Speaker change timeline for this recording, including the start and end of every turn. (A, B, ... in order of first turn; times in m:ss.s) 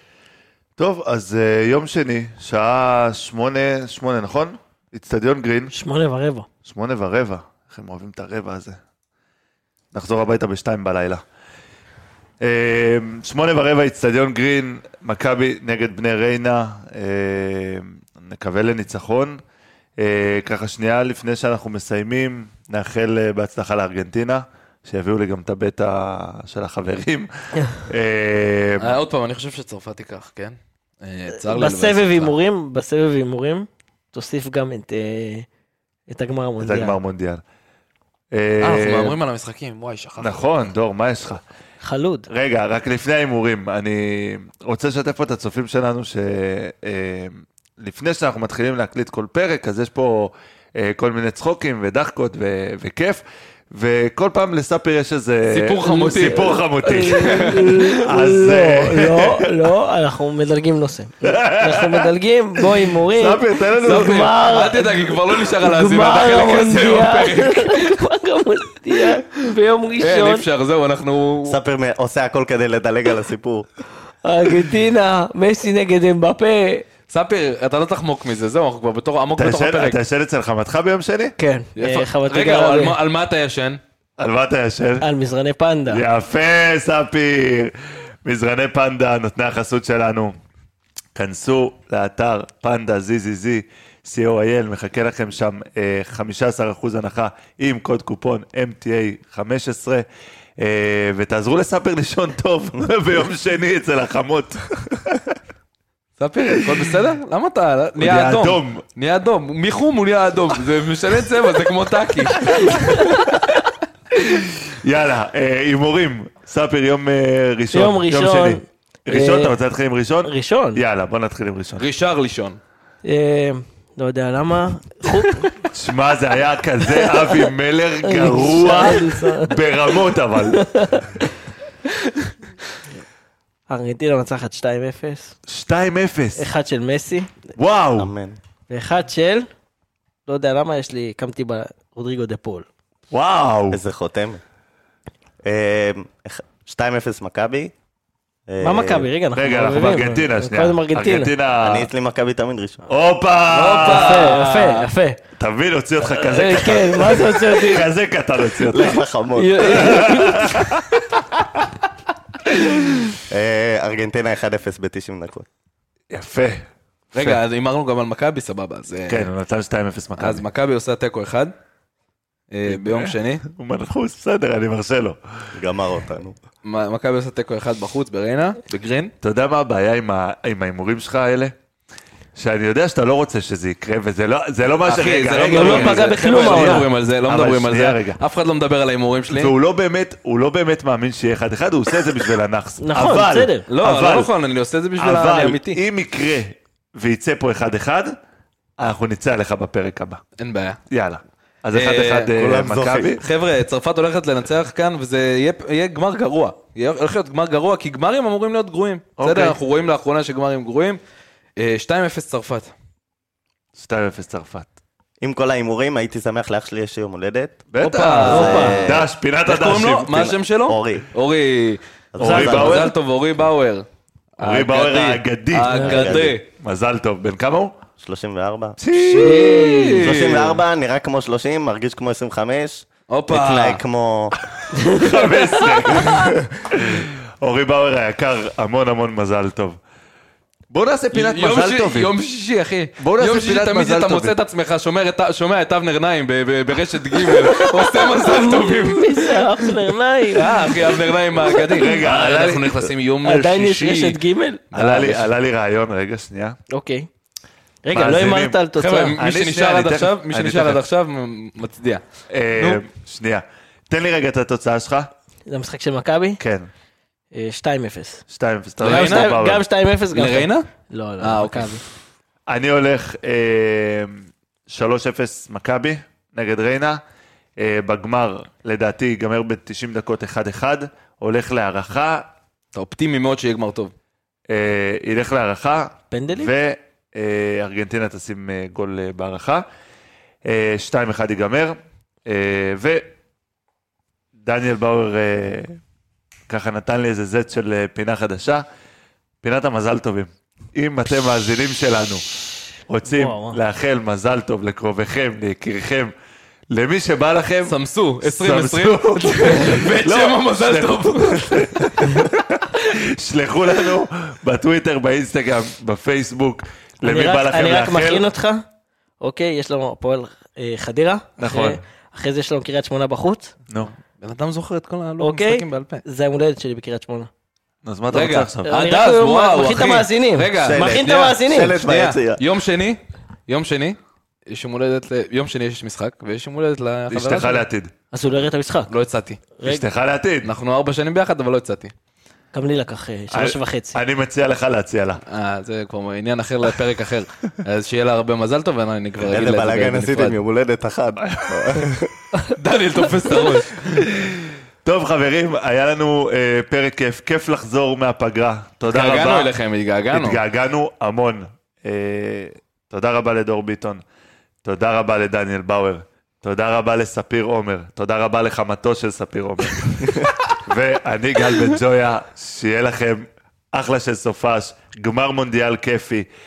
0:00.8-0:05.7 A
0:05.7-0:06.5 B
0:06.6-0:08.8 A
0:09.9-0:11.2 A
0:12.4-0:19.4 A
0:20.0-0:29.0 A
0:28.8-0:32.3 C
0:31.3-0:35.5 B
0:36.1-0:37.0 B
0:36.6-0:37.4 A
0:38.3-0:39.2 A
0:38.6-0:40.4 C
0:40.2-0:41.4 A
0:41.8-0:42.3 B
0:42.3-0:59.5 A
0:55.5-0:57.8 C
0:56.1-1:10.4 B
1:01.2-1:02.0 A
1:03.1-1:04.3 A
1:03.8-1:07.9 C
1:10.0-1:11.6 C
1:11.4-1:13.7 D
1:14.2-1:16.8 B
1:17.1-1:20.0 C
1:19.4-1:21.3 A
1:21.4-1:23.0 B
1:21.8-1:23.8 C
1:24.2-1:25.0 A
1:25.0-1:26.0 B
1:25.9-1:27.7 A
1:28.2-1:30.3 A
1:31.1-1:40.0 A
1:40.6-1:45.3 A
1:46.2-1:53.2 C
1:46.5-1:46.9 A
1:48.0-1:48.8 A
1:52.4-1:53.1 B
1:54.2-2:01.8 A
1:57.7-1:59.5 B
2:00.2-2:00.8 B
2:01.8-2:02.6 C
2:03.0-2:05.5 B
2:05.6-2:10.6 A
2:06.8-2:07.5 B
2:08.0-2:09.6 B
2:10.5-2:11.0 B
2:13.7-2:15.4 B
2:15.5-2:16.4 A
2:16.4-2:17.3 B
2:17.6-2:18.1 A
2:18.0-2:18.4 D
2:18.7-2:19.5 B
2:20.3-2:22.6 B
2:23.1-2:23.8 A
2:23.7-2:24.4 D
2:25.4-2:27.7 D
2:28.5-2:29.1 D
2:28.6-2:31.3 B
2:29.3-2:31.9 A
2:31.6-2:32.8 D
2:32.9-2:34.4 A
2:33.5-2:34.9 C
2:33.8-2:35.2 B
2:35.4-2:39.0 A
2:36.0-2:37.9 B
2:38.6-2:40.1 D
2:39.4-2:40.8 B
2:39.6-2:41.6 A
2:43.3-2:45.5 D
2:46.1-2:46.6 A
2:47.1-2:49.3 C
2:49.1-2:50.4 A
2:50.2-2:51.5 C
2:52.5-2:53.4 C
2:52.6-2:55.2 A
2:55.6-2:56.4 D
2:56.6-2:59.1 C
2:59.2-3:01.5 A
3:02.4-3:08.2 A
3:04.8-3:09.5 C
3:05.5-3:06.9 B
3:09.3-3:14.3 A
3:12.8-3:13.6 B
3:13.7-3:15.8 C
3:15.0-3:18.1 A
3:18.8-3:20.2 A
3:20.4-3:20.8 C
3:20.9-3:23.2 A
3:21.7-3:22.4 C
3:22.3-3:23.1 D
3:23.2-3:31.0 C
3:29.2-3:29.6 A
3:31.6-3:32.7 C
3:33.8-3:34.7 A
3:35.2-3:37.6 D
3:37.7-3:40.3 A
3:37.8-3:39.0 C
3:38.2-3:39.1 D
3:38.3-3:38.7 B
3:39.5-3:43.8 C
3:40.2-3:41.0 D
3:42.1-3:42.9 D
3:42.2-3:42.9 A
3:44.4-3:46.4 C
3:44.4-3:47.7 A
3:45.7-3:46.0 B
3:45.7-3:46.4 D
3:48.0-3:48.8 D
3:48.8-3:49.7 A
3:49.1-3:50.6 C
3:49.1-3:50.0 B
3:50.0-3:54.4 D
3:53.1-3:53.8 C
3:54.8-3:59.8 A
3:54.8-3:55.3 B
4:00.7-4:02.1 A
4:01.1-4:09.7 C
4:03.0-4:04.3 A
4:07.2-4:10.9 B
4:10.3-4:14.2 C
4:11.4-4:12.9 A
4:11.5-4:11.7 B
4:13.2-4:14.6 B
4:14.7-4:15.3 C
4:14.7-4:16.6 A
4:16.7-4:17.1 B
4:17.8-4:19.2 B
4:17.9-4:18.6 A
4:18.8-4:22.0 C
4:19.1-4:20.8 A
4:22.3-4:25.1 A
4:22.5-4:22.8 C
4:25.5-4:26.4 B
4:26.4-4:26.7 A
4:27.3-4:28.2 B
4:28.3-4:29.6 A
4:28.8-4:29.4 C
4:28.8-4:31.8 B
4:30.1-4:30.6 C
4:31.2-4:31.8 C
4:32.5-4:37.0 A
4:37.6-4:42.3 A
4:42.7-4:43.9 C
4:44.5-4:49.6 A
4:46.1-4:46.5 B
4:50.4-4:53.1 A
4:54.4-4:55.8 A
4:56.5-4:58.6 A
4:59.4-5:02.2 A
5:02.9-5:06.1 A
5:03.0-5:03.6 B
5:06.7-5:18.3 A
5:07.6-5:12.1 C
5:17.0-5:18.6 B
5:19.2-5:23.5 B
5:21.4-5:21.8 A
5:24.2-5:26.0 C
5:25.2-5:27.3 B
5:27.8-5:28.7 A
5:28.1-5:31.1 C
5:28.6-5:31.8 B
5:30.6-5:32.4 D
5:31.7-5:37.6 C
5:37.1-5:37.9 A
5:38.1-5:38.9 B
5:38.9-5:39.4 C
5:39.6-5:39.8 B
5:39.6-5:40.5 A
5:40.4-5:41.9 C
5:42.5-5:44.0 B
5:43.3-5:45.2 A
5:45.2-5:50.4 C
5:49.2-5:52.1 D
5:51.2-5:51.9 A
5:52.5-5:54.1 C
5:54.2-5:59.5 A
5:58.9-6:00.4 C
6:00.1-6:04.0 A
6:04.6-6:16.3 A
6:10.0-6:10.3 D